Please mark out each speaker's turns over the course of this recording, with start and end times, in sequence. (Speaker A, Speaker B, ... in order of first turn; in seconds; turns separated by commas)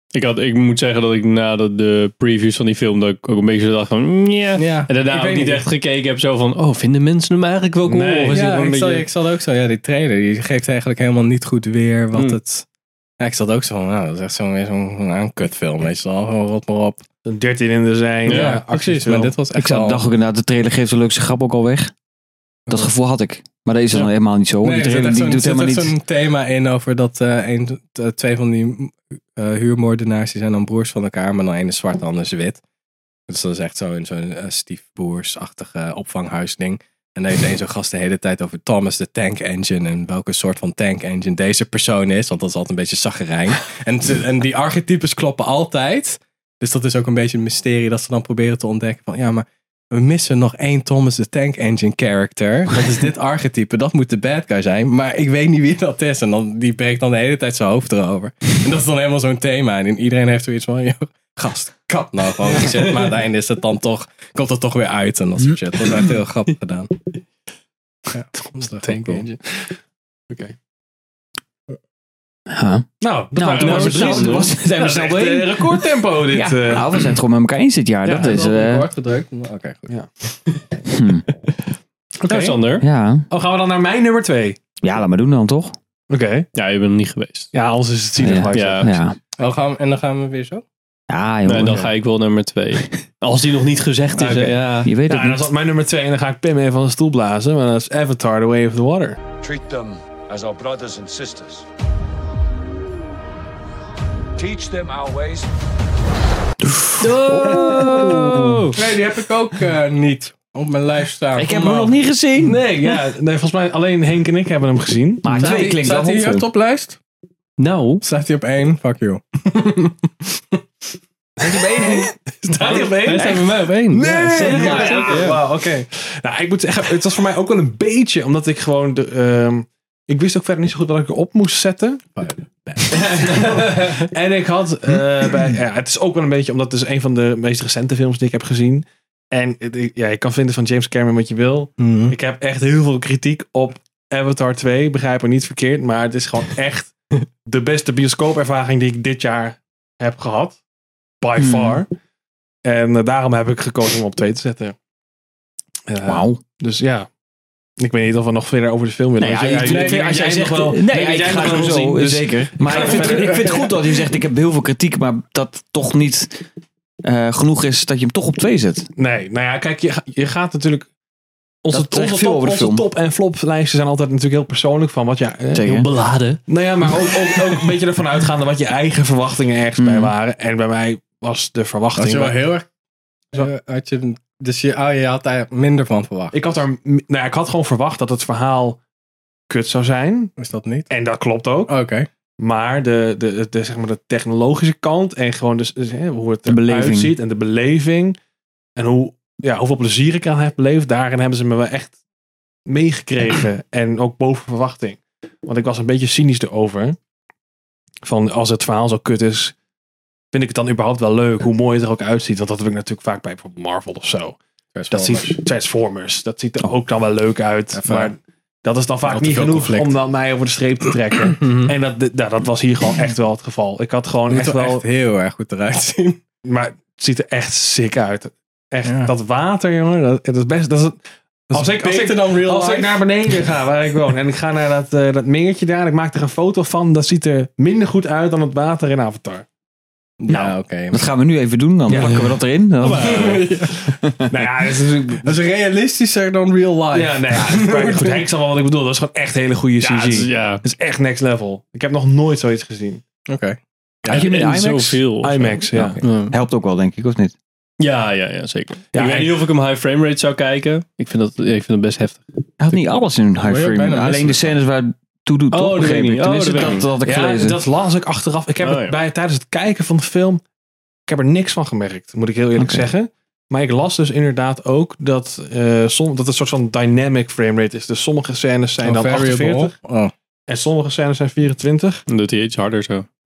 Speaker A: 0.1-9.0, Speaker B: 4.6-5.6, Speaker C: 7.9-8.9, Speaker B: 8.3-12.7, Speaker B: 13.2-17.0, Speaker C: 17.3-19.4, Speaker A: 18.3-18.6, Speaker B: 18.3-20.0, Speaker D: 19.5-21.9, Speaker D: 22.7-25.9, Speaker B: 24.6-32.6, Speaker B: 33.3-66.9, Speaker B: 68.1-69.4, Speaker C: 68.6-69.7, Speaker C: 70.3-70.5, Speaker D: 72.5-78.9, Speaker C: 73.0-77.1, Speaker A: 73.5-74.5, Speaker C: 78.0-78.4, Speaker B: 78.2-79.9, Speaker D: 80.9-81.2, Speaker C: 82.2-82.6, Speaker A: 82.2-82.9, Speaker D: 82.8-83.3, Speaker C: 83.3-84.6, Speaker D: 84.8-85.8, Speaker C: 86.1-86.5, Speaker A: 86.5-87.5, Speaker C: 87.5-89.0, Speaker D: 88.2-89.2, Speaker A: 88.5-88.9, Speaker B: 89.4-90.6, Speaker D: 91.1-91.9, Speaker A: 91.5-94.9, Speaker C: 94.2-99.2, Speaker D: 94.8-95.5, Speaker E: 99.4-101.7, Speaker E: 104.4-105.5, Speaker D: 106.6-108.7, Speaker A: 107.0-108.8, Speaker B: 108.8-112.0, Speaker D: 111.3-112.6, Speaker C: 112.4-115.6, Speaker D: 115.2-116.5, Speaker B: 115.3-117.0, Speaker A: 117.6-118.0, Speaker B: 118.0-120.0, Speaker D: 121.4-122.1, Speaker C: 121.4-132.0, Speaker A: 122.6-125.4, Speaker D: 123.2-123.4, Speaker D: 124.4-125.3, Speaker B: 132.2-133.5, Speaker C: 132.9-150.6, Speaker B: 141.8-142.2, Speaker C: 151.2-151.9, Speaker D: 151.4-151.8, Speaker C: 152.7-154.8, Speaker C: 155.9-157.1, Speaker D: 156.0-156.4, Speaker C: 157.8-163.5, Speaker D: 159.2-166.4, Speaker B: 159.3-160.2, Speaker B: 163.1-163.3, Speaker D: 167.0-168.9, Speaker C: 169.0-170.9, Speaker C: 171.6-175.7, Speaker D: 171.7-172.8, Speaker D: 175.5-175.9, Speaker A: 175.6-176.4, Speaker C: 176.5-182.4, Speaker D: 179.8-180.1, Speaker B: 182.0-182.7, Speaker B: 183.3-186.4, Speaker C: 186.3-188.8, Speaker C: 189.5-190.3, Speaker B: 190.4-190.9, Speaker C: 190.9-191.8, Speaker B: 191.7-192.1, Speaker C: 192.4-198.2, Speaker D: 196.5-197.2, Speaker C: 198.8-201.9, Speaker C: 202.7-207.0, Speaker C: 208.1-209.5, Speaker C: 210.3-214.4, Speaker B: 214.8-215.3, Speaker C: 214.9-224.8, Speaker B: 217.7-218.1, Speaker B: 219.1-219.9, Speaker B: 221.4-221.7, Speaker B: 224.3-226.2, Speaker C: 226.4-231.0, Speaker B: 228.8-229.1, Speaker B: 231.5-233.0, Speaker C: 231.5-239.4, Speaker B: 240.2-241.0, Speaker D: 240.3-244.2, Speaker C: 241.9-242.2, Speaker A: 242.0-243.4, Speaker B: 242.9-243.9, Speaker C: 244.3-245.3, Speaker B: 245.2-248.2, Speaker C: 246.9-253.0, Speaker A: 249.8-250.6, Speaker B: 253.3-254.3, Speaker D: 254.1-257.3, Speaker A: 254.1-256.3, Speaker C: 255.2-256.0, Speaker A: 257.8-262.3, Speaker C: 258.9-259.4, Speaker D: 262.6-267.6, Speaker B: 263.4-264.5, Speaker A: 265.5-266.9, Speaker C: 267.0-270.4, Speaker A: 268.6-268.9, Speaker C: 271.1-279.7, Speaker D: 272.6-272.9, Speaker B: 278.8-280.1, Speaker C: 280.5-282.0, Speaker A: 282.1-283.1